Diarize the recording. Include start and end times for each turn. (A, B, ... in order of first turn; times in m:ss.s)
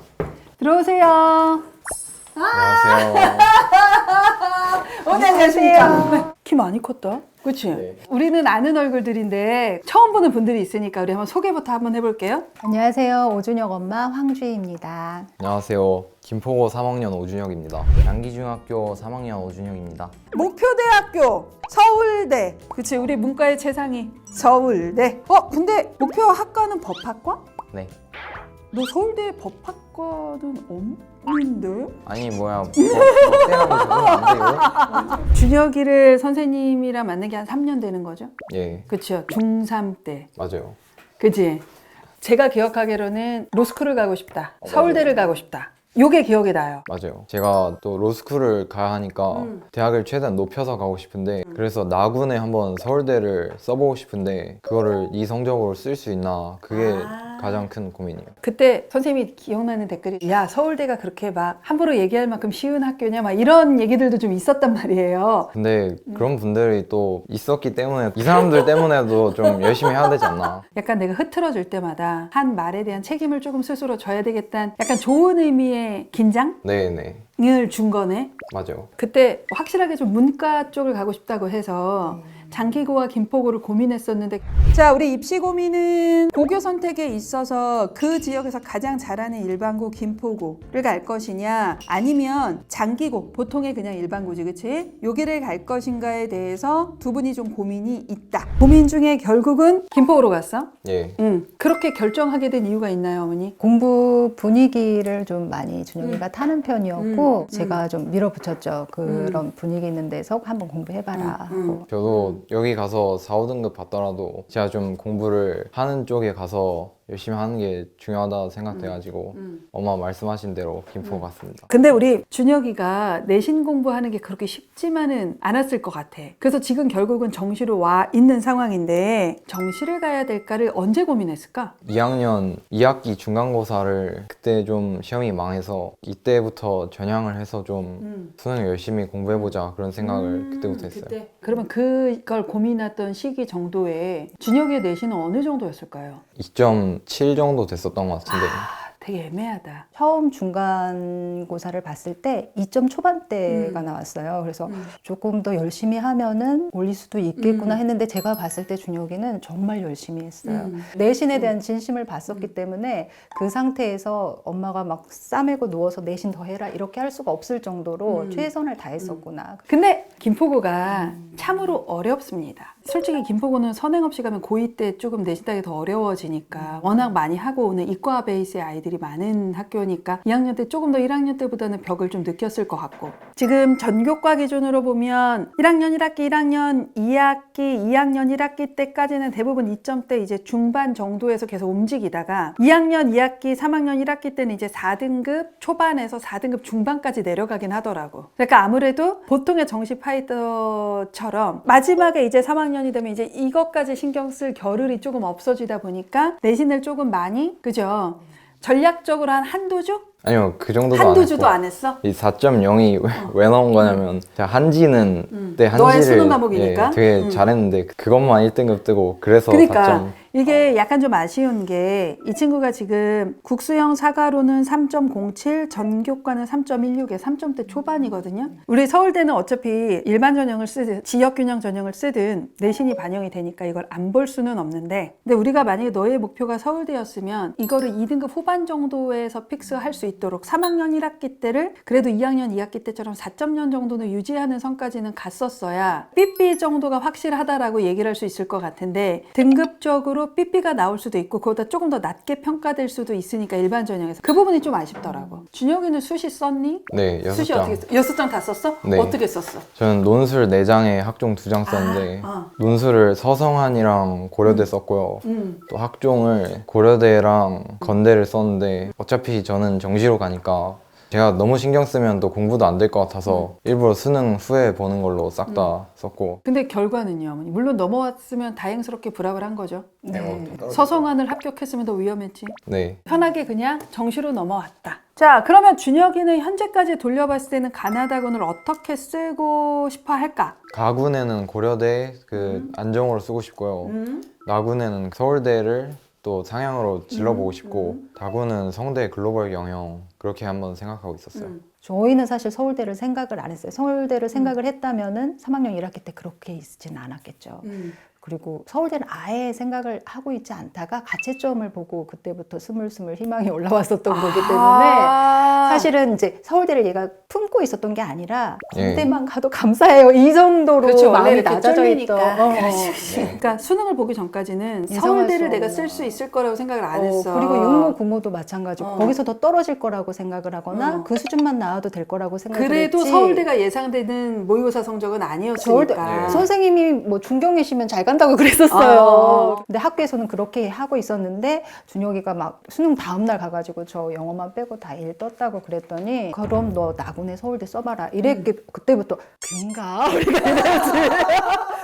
0:00.6-0:01.6 A
0:02.4-0:12.5 A
0:02.5-0:03.6 B
0:05.1-0:06.3 C
0:12.6-0:15.3 C
0:15.4-0:20.1 B
0:20.3-0:27.4 A
0:28.7-0:32.0 A
0:32.1-0:34.8 B
0:32.8-0:38.3 A
0:38.5-0:38.9 B
0:38.9-0:40.3 A
0:40.4-0:40.8 B
0:41.2-0:41.6 A
0:42.2-0:46.8 A
0:44.6-0:45.2 B
0:46.9-0:58.3 B
0:49.3-0:49.6 A
0:56.7-0:57.7 A
0:58.4-1:05.5 A
1:05.5-1:10.6 B
1:08.3-1:16.6 A
1:16.6-1:17.2 B
1:17.4-1:18.4 A
1:18.5-1:18.9 B
1:19.0-1:43.6 A
1:40.8-1:41.2 B
1:43.6-1:51.9 C
1:47.0-1:47.8 A
1:49.0-1:49.4 A
1:51.2-1:52.4 A
1:51.9-2:01.7 B
1:58.7-1:59.6 A
2:01.0-2:11.7 A
2:11.8-2:21.2 B
2:18.0-2:18.3 A
2:19.3-2:26.2 A
2:26.4-2:28.7 B
2:28.3-2:29.9 A
2:30.0-2:49.7 C
2:33.5-2:33.8 A
2:37.4-2:37.8 A
2:40.4-2:41.5 A
2:48.1-2:48.5 A
2:49.0-3:30.1 A
2:50.9-2:51.5 C
2:56.5-2:57.1 C
3:30.2-3:40.7 B
3:30.9-3:32.0 A
3:33.2-3:34.0 A
3:35.3-3:37.4 A
3:39.5-4:19.6 A
4:16.9-4:17.8 B
4:18.8-4:19.2 B
4:19.8-4:36.4 B
4:21.7-4:22.5 A
4:25.2-4:25.6 A
4:35.5-4:35.7 A
4:36.4-4:40.0 A
4:40.0-4:40.7 C
4:40.1-4:41.1 B
4:40.7-4:50.6 A
4:42.7-4:43.0 B
4:50.7-5:01.5 B
4:52.4-4:52.7 A
4:53.8-4:54.3 A
4:57.1-4:58.0 A
5:01.3-5:01.6 A
5:01.8-5:23.1 C
5:07.6-5:08.0 A
5:14.1-5:15.9 A
5:18.7-5:19.2 B
5:20.8-5:28.0 A
5:23.1-5:23.4 B
5:24.9-5:26.2 C
5:26.9-5:33.5 C
5:28.8-5:29.2 A
5:30.7-5:31.1 A
5:32.5-5:36.5 A
5:35.6-5:51.7 C
5:36.0-5:36.5 B
5:38.7-5:39.6 A
5:48.2-5:48.5 A